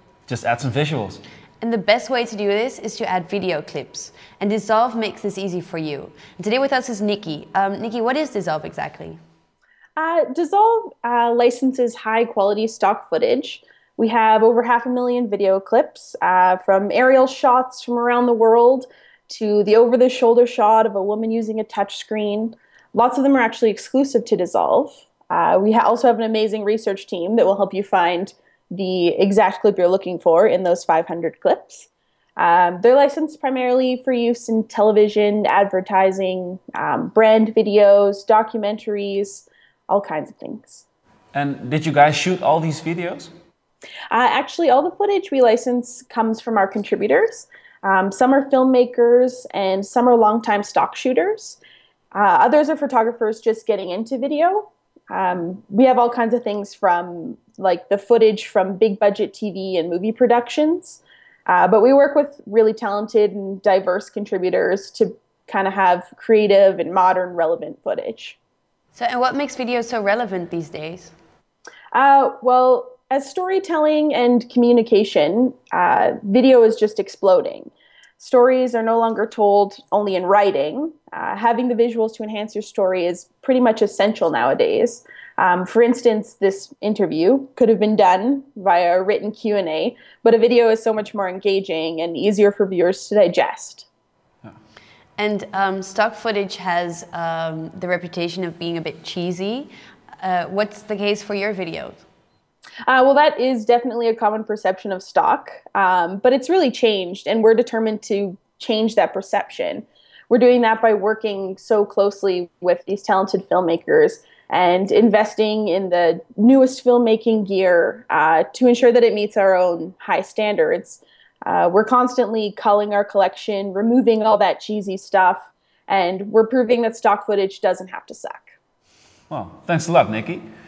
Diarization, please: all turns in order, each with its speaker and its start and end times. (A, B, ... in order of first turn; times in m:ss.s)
0:00.3-0:01.2 A
0:01.6-0:09.2 B
0:10.0-0:40.8 C
0:41.3-0:43.3 A
0:44.1-0:51.6 C
0:52.1-1:08.4 C
1:08.9-1:11.1 B
1:11.9-1:33.9 C
1:35.2-1:42.0 B
1:42.9-2:08.5 C
2:09.3-2:10.4 A